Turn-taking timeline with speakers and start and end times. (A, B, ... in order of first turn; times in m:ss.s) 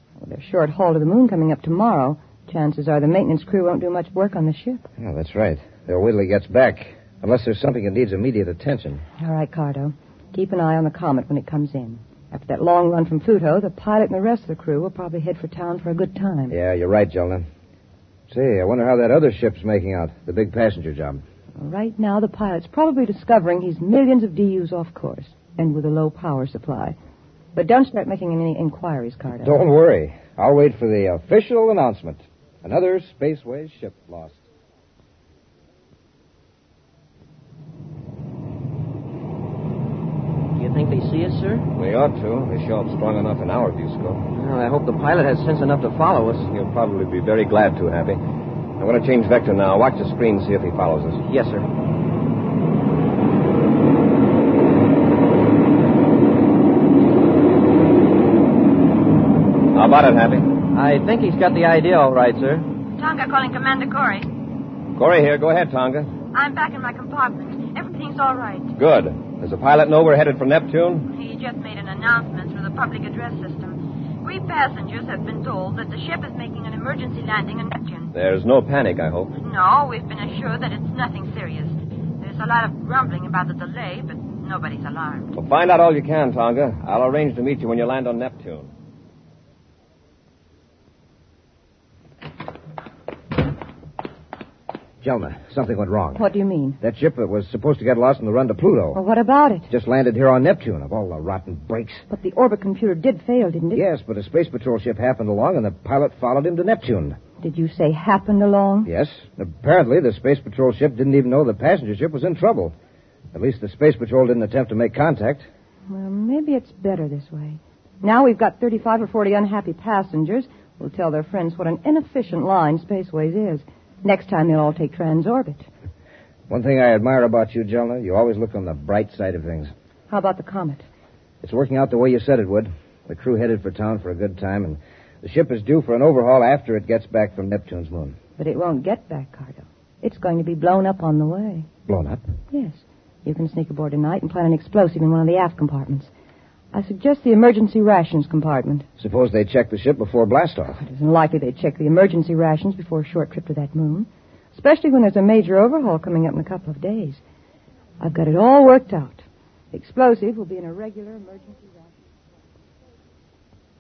0:00.2-0:04.8 A
0:05.0-0:09.0 B
0:09.2-0:16.6 A
0:16.5-0:17.5 B
0:18.3-0:21.2 B
0:21.6-0:27.0 A
0:27.6-0:29.6 A
0:29.3-0:34.4 B
0:40.6-0:41.7 C
0:41.7-0:44.3 D
0:44.3-0:46.5 C
0:46.5-0:48.2 D
0:48.8-0:51.2 D
0:51.3-0:51.7 C
0:59.7-1:00.6 D
1:00.7-1:02.7 C
1:03.0-1:04.3 E
1:05.0-1:06.1 D
1:06.3-1:08.7 E
1:08.8-1:11.1 D
1:11.1-1:18.1 E
1:18.1-1:19.4 D
1:19.4-1:25.3 E
1:25.4-1:28.7 D
1:35.0-1:36.3 B
1:36.2-1:36.8 A
1:36.8-1:39.0 B
1:38.9-1:39.7 A
1:39.7-1:42.0 B
1:42.1-1:43.8 A
1:43.7-1:47.2 B
1:47.4-1:48.9 A
1:48.8-1:52.8 B
1:53.3-1:55.5 B
1:55.9-2:05.7 A
2:06.5-2:09.7 B
2:10.1-2:10.9 A
2:11.4-2:18.2 B
2:18.4-2:21.7 A
2:21.9-2:22.2 B
2:22.5-2:26.1 A
2:26.7-2:28.9 A
2:29.0-2:30.8 B
2:30.8-2:37.2 A
2:38.0-2:41.9 A